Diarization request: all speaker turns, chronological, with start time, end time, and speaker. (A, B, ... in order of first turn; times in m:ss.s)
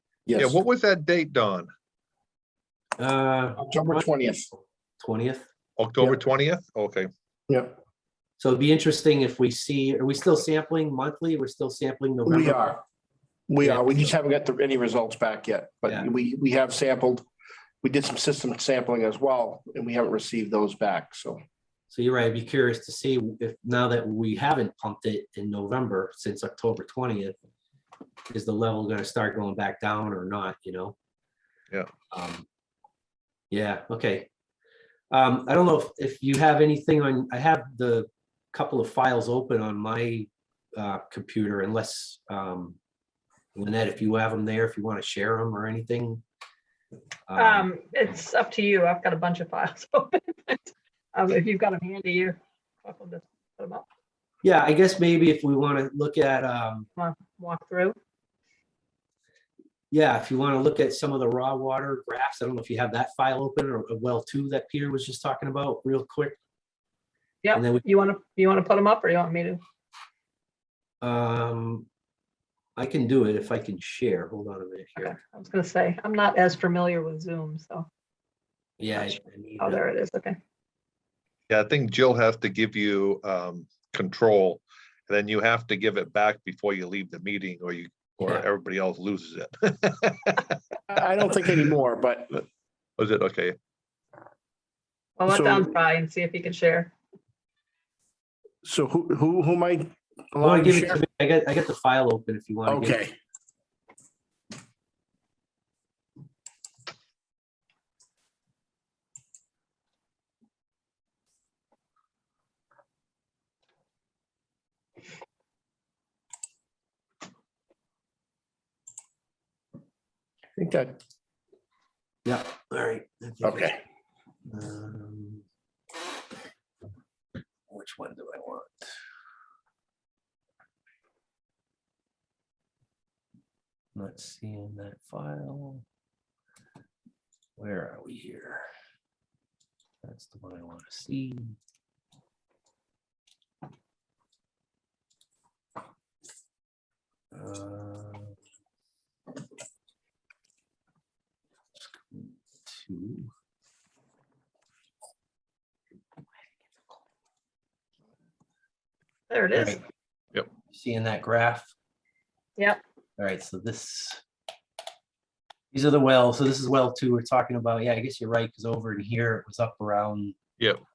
0:00.3-0:00.6 A
0:00.4-0:01.7 B
0:03.0-0:05.5 C
0:03.6-0:04.5 A
0:05.8-0:07.1 B
0:07.5-0:07.8 A
0:08.4-0:12.8 C
0:12.3-0:12.8 A
0:13.5-0:17.3 A
0:13.6-0:14.1 C
0:17.8-0:21.4 A
0:21.9-0:27.4 C
0:28.3-0:31.0 C
0:32.1-0:32.4 C
0:33.5-0:34.3 C
0:35.1-0:42.8 C
0:43.6-0:46.2 C
0:47.3-0:47.7 C
0:47.4-0:53.9 D
0:54.4-0:56.9 C
0:57.0-0:58.0 D
0:59.9-1:06.4 C
1:07.4-1:09.6 D
1:07.6-1:07.8 C
1:11.0-1:11.9 C
1:12.8-1:15.1 C
1:15.0-1:17.9 D
1:18.8-1:19.8 C
1:19.6-1:20.4 D
1:21.5-1:30.4 B
1:30.9-1:32.4 A
1:33.0-1:33.6 B
1:35.2-1:36.9 D
1:35.3-1:35.7 A
1:38.6-1:41.0 A
1:40.4-1:43.0 C
1:42.7-1:43.2 A
2:00.6-2:01.0 A
2:02.2-2:03.7 C
2:03.4-2:03.8 A
2:04.5-2:05.4 C
2:07.7-2:08.9 C
2:14.0-2:15.8 C
2:17.6-2:18.7 C
2:20.0-2:21.6 C
2:27.3-2:28.4 C
2:31.8-2:33.3 C
2:39.3-2:39.8 D
2:39.6-2:39.8 C
2:40.7-2:41.7 C
2:43.2-2:44.2 C
2:45.7-2:50.4 C